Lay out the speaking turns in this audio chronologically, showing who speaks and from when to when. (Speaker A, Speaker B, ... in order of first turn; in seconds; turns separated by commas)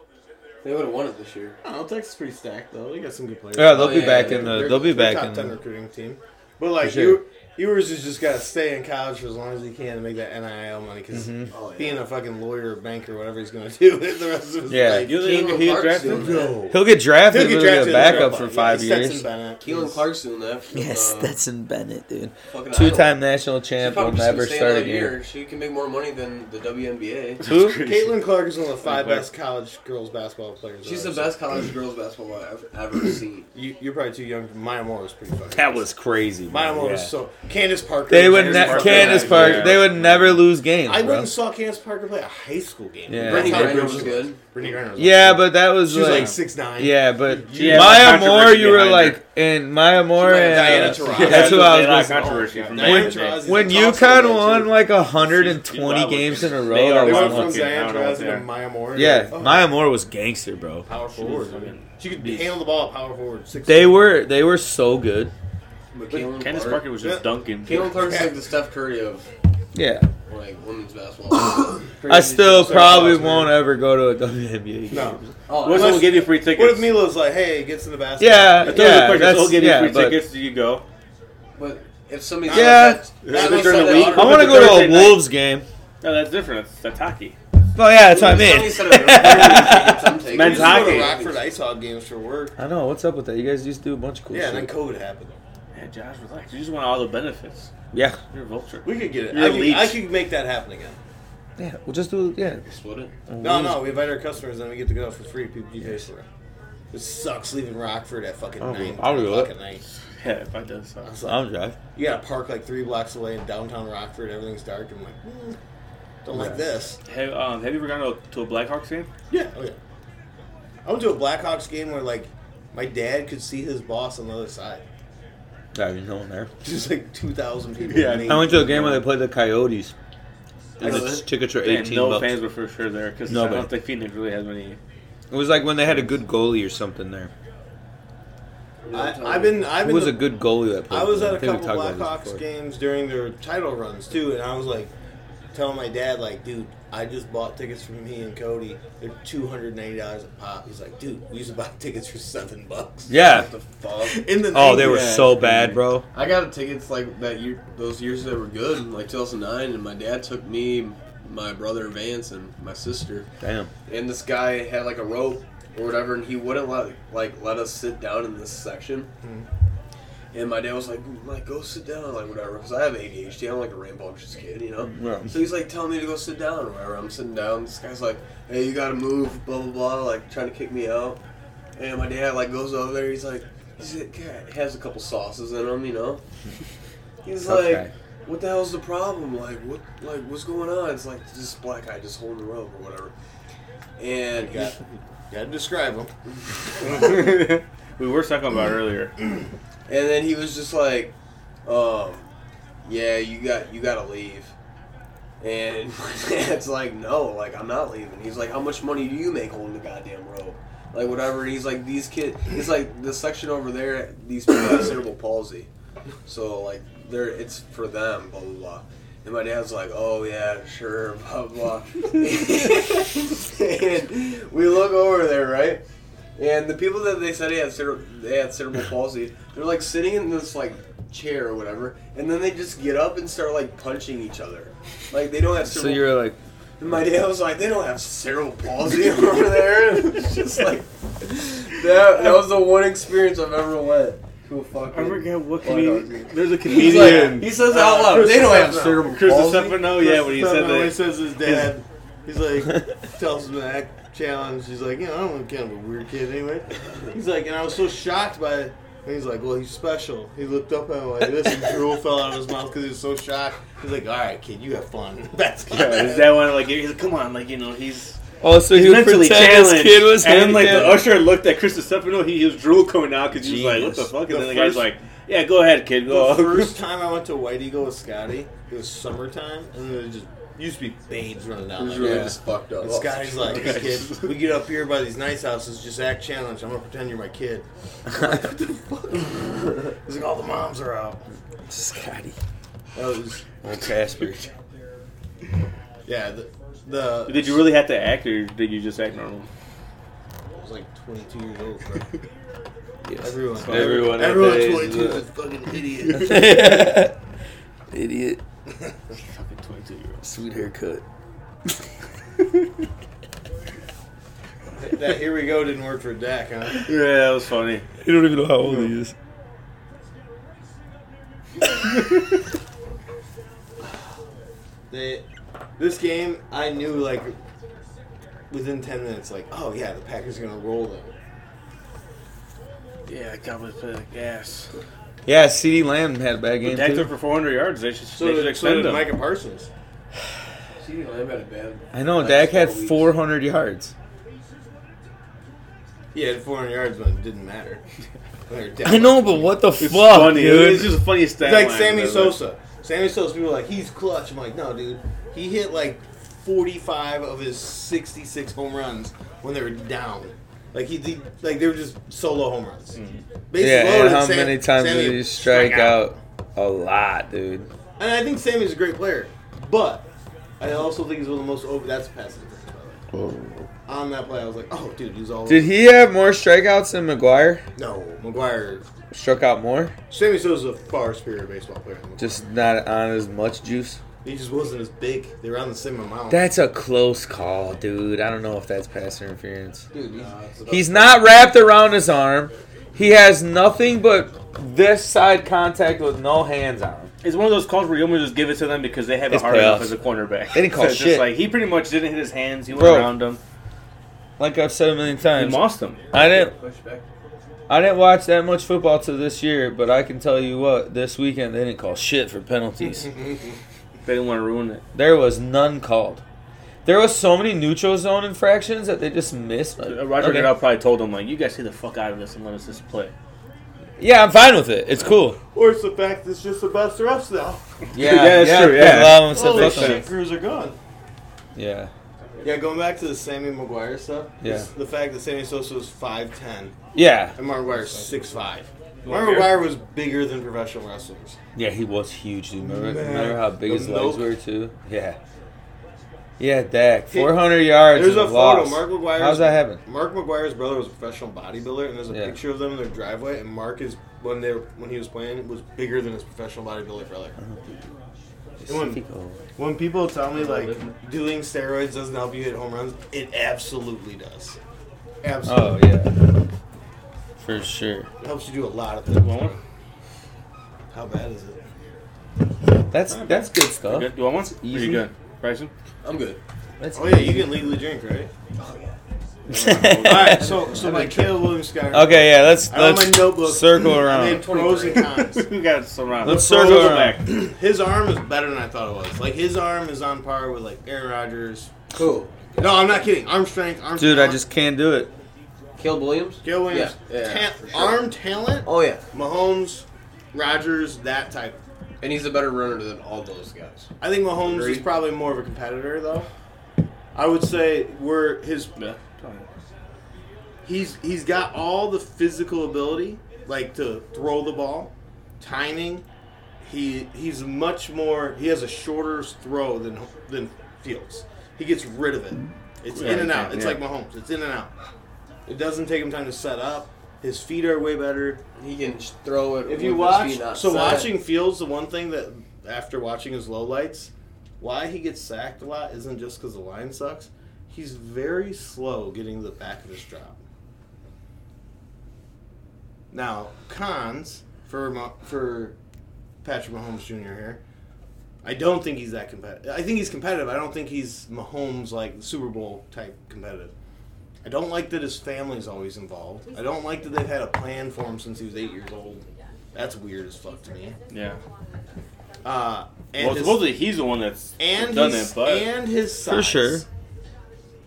Speaker A: 0.6-1.6, Speaker B: 1.6-15.4, Speaker C: 3.5-5.5, Speaker A: 3.7-4.8, Speaker C: 6.8-7.2, Speaker C: 11.1-11.5, Speaker A: 11.5-12.1, Speaker C: 14.7-15.1, Speaker D: 15.0-16.5, Speaker A: 15.1-16.6, Speaker B: 16.0-20.0, Speaker C: 16.7-19.3, Speaker D: 17.9-18.3, Speaker A: 19.6-21.3, Speaker C: 20.7-25.1, Speaker A: 22.5-23.2, Speaker A: 23.8-27.4, Speaker D: 27.4-28.2, Speaker C: 27.4-27.8, Speaker B: 27.8-31.4, Speaker D: 28.8-29.3, Speaker A: 30.8-33.5, Speaker B: 33.5-35.9, Speaker C: 35.5-37.1, Speaker B: 36.5-48.3, Speaker C: 38.1-41.3, Speaker D: 38.2-40.2, Speaker A: 38.7-39.7, Speaker C: 43.1-44.0, Speaker A: 43.2-44.4, Speaker C: 45.0-57.7, Speaker D: 46.0-46.3, Speaker D: 47.5-49.2, Speaker A: 50.1-51.5, Speaker B: 50.3-54.8, Speaker D: 51.0-53.5, Speaker D: 55.1-58.5, Speaker B: 57.0-59.7, Speaker C: 58.9-60.9, Speaker B: 60.9-64.1, Speaker D: 61.1-62.6, Speaker C: 63.6-65.3, Speaker B: 65.9-66.3, Speaker A: 66.0-66.8, Speaker D: 66.3-67.9, Speaker B: 67.0-68.3, Speaker A: 67.6-69.3, Speaker C: 69.7-70.1, Speaker A: 70.2-73.4, Speaker C: 72.1-75.3, Speaker B: 72.5-73.5, Speaker B: 74.9-78.9, Speaker A: 75.5-76.2, Speaker D: 75.6-77.0, Speaker C: 78.2-80.2, Speaker D: 78.6-80.8, Speaker A: 81.5-84.7, Speaker C: 82.5-83.1, Speaker B: 82.5-84.9, Speaker D: 83.2-85.2, Speaker C: 84.1-85.7, Speaker D: 86.0-87.3, Speaker C: 87.7-90.2, Speaker A: 88.0-91.4, Speaker D: 90.2-91.2, Speaker B: 90.3-92.5, Speaker C: 92.6-94.7, Speaker B: 94.3-95.4, Speaker D: 95.7-97.7, Speaker C: 97.9-98.2, Speaker D: 98.3-100.0, Speaker B: 98.8-101.0, Speaker C: 101.6-102.6, Speaker A: 102.6-103.1, Speaker C: 103.3-104.0, Speaker B: 103.4-106.2, Speaker B: 106.9-109.8, Speaker C: 108.6-109.5, Speaker D: 110.2-111.1, Speaker B: 111.0-111.4, Speaker C: 111.2-111.8, Speaker B: 111.9-115.6, Speaker B: 116.2-117.0, Speaker C: 116.3-116.6, Speaker D: 117.1-119.1, Speaker B: 119.3-119.8, Speaker B: 120.8-124.8, Speaker C: 125.7-126.5, Speaker B: 126.6-129.0, Speaker D: 127.8-129.0, Speaker C: 128.3-129.9, Speaker A: 130.8-131.2, Speaker C: 130.8-132.3, Speaker D: 131.5-134.8, Speaker C: 133.3-133.7, Speaker C: 135.3-137.3, Speaker A: 138.8-139.7, Speaker B: 138.9-140.3, Speaker C: 139.8-142.4, Speaker B: 140.9-144.9, Speaker B: 145.5-153.2, Speaker C: 153.1-153.5, Speaker A: 153.2-154.2, Speaker B: 154.0-155.2, Speaker C: 154.5-156.1, Speaker D: 154.7-155.8, Speaker A: 156.1-163.3, Speaker C: 163.4-163.7, Speaker A: 163.9-169.1, Speaker A: 170.3-181.2, Speaker C: 174.9-175.3, Speaker A: 181.8-186.2, Speaker A: 187.2-193.1, Speaker C: 187.4-187.9, Speaker A: 194.0-194.7, Speaker B: 194.4-196.1, Speaker D: 196.8-199.1, Speaker A: 199.9-202.3, Speaker A: 202.8-204.5, Speaker A: 205.4-215.7, Speaker A: 216.2-225.8, Speaker A: 226.3-236.2, Speaker C: 235.7-236.4, Speaker A: 236.8-249.9, Speaker D: 244.9-247.5, Speaker C: 246.7-247.5, Speaker B: 247.4-249.2, Speaker D: 249.1-251.7, Speaker B: 249.9-266.4, Speaker D: 265.7-276.7, Speaker C: 268.4-271.1, Speaker C: 273.4-274.1, Speaker B: 274.2-274.9, Speaker B: 276.1-291.2, Speaker A: 281.8-283.9, Speaker D: 283.4-284.3, Speaker C: 291.7-292.4, Speaker B: 292.9-293.4, Speaker C: 293.6-294.5, Speaker B: 296.1-297.6, Speaker D: 297.3-299.5, Speaker B: 300.5-302.1, Speaker B: 303.2-306.7, Speaker D: 303.5-304.3, Speaker C: 303.6-305.2, Speaker C: 306.1-307.1, Speaker C: 307.9-308.4, Speaker D: 309.1-310.3, Speaker C: 310.2-311.0, Speaker B: 314.8-316.9, Speaker D: 316.7-317.9, Speaker C: 318.0-319.1, Speaker B: 324.9-325.2, Speaker B: 325.8-327.4, Speaker B: 328.5-331.1, Speaker D: 333.1-334.7, Speaker C: 335.2-337.1, Speaker D: 336.6-339.1, Speaker B: 338.1-339.7, Speaker A: 340.8-343.1, Speaker C: 341.9-343.9, Speaker B: 346.1-347.8, Speaker B: 348.5-349.6, Speaker C: 348.8-351.0, Speaker D: 349.8-352.4, Speaker B: 351.4-363.0, Speaker D: 362.9-363.2, Speaker B: 363.5-365.4, Speaker C: 363.6-367.7, Speaker D: 365.4-366.0, Speaker B: 368.0-370.1, Speaker B: 370.6-373.0, Speaker C: 373.1-373.7, Speaker B: 373.9-375.7, Speaker C: 375.5-377.6, Speaker B: 377.8-378.8, Speaker C: 379.1-379.9, Speaker B: 380.1-382.4, Speaker C: 382.2-384.0, Speaker B: 384.2-386.5, Speaker C: 386.3-389.9, Speaker A: 389.9-391.3, Speaker C: 390.7-397.1, Speaker D: 397.2-403.4, Speaker C: 399.3-400.0, Speaker C: 400.5-401.3, Speaker C: 402.7-403.1, Speaker C: 404.4-406.5, Speaker D: 405.3-406.0, Speaker A: 406.1-407.1, Speaker C: 407.7-413.1, Speaker D: 414.1-414.8, Speaker C: 414.9-416.2, Speaker C: 416.8-420.5, Speaker D: 419.8-423.1, Speaker C: 424.0-425.4, Speaker B: 425.5-427.6, Speaker C: 427.9-430.0, Speaker D: 427.9-430.1, Speaker B: 429.1-430.8, Speaker C: 431.5-431.9, Speaker A: 432.2-432.5, Speaker B: 432.4-436.7, Speaker C: 434.4-434.7, Speaker C: 436.9-437.4, Speaker B: 437.4-441.4, Speaker A: 437.7-438.2, Speaker D: 439.0-439.5, Speaker C: 441.5-445.2, Speaker B: 442.6-444.3, Speaker C: 446.4-449.8, Speaker B: 447.1-457.4, Speaker C: 452.1-452.4, Speaker C: 457.4-457.8, Speaker C: 458.6-459.4, Speaker B: 458.7-459.0, Speaker B: 459.6-464.6, Speaker B: 465.2-465.8, Speaker C: 465.4-466.3, Speaker C: 467.4-468.1, Speaker B: 468.2-469.6, Speaker D: 469.1-469.6, Speaker B: 470.9-471.6, Speaker C: 472.9-475.0, Speaker D: 473.1-475.7, Speaker A: 476.0-476.4, Speaker C: 476.8-477.5, Speaker B: 476.9-478.3, Speaker A: 478.5-479.0, Speaker D: 479.5-480.4, Speaker C: 479.5-480.5, Speaker B: 479.9-485.5, Speaker A: 480.4-481.5, Speaker C: 481.9-484.5, Speaker A: 484.1-485.1, Speaker D: 484.9-487.2, Speaker C: 486.2-487.2, Speaker B: 486.2-491.7, Speaker A: 491.9-492.5, Speaker B: 492.6-494.4, Speaker C: 494.0-495.1, Speaker A: 495.8-498.1, Speaker B: 496.4-501.6, Speaker A: 498.6-499.0, Speaker A: 502.0-503.9, Speaker B: 504.0-506.3, Speaker A: 504.4-504.9, Speaker B: 507.1-508.7, Speaker D: 508.8-509.5, Speaker B: 510.6-516.0, Speaker B: 516.6-524.7, Speaker D: 522.9-523.8, Speaker B: 525.5-528.4, Speaker A: 528.6-531.2, Speaker B: 529.6-540.4, Speaker B: 543.1-545.8, Speaker B: 546.4-547.6, Speaker B: 548.4-553.7, Speaker B: 554.4-561.0, Speaker D: 561.1-561.4, Speaker B: 562.4-563.7, Speaker D: 563.2-565.7, Speaker B: 564.6-566.8, Speaker C: 566.2-566.8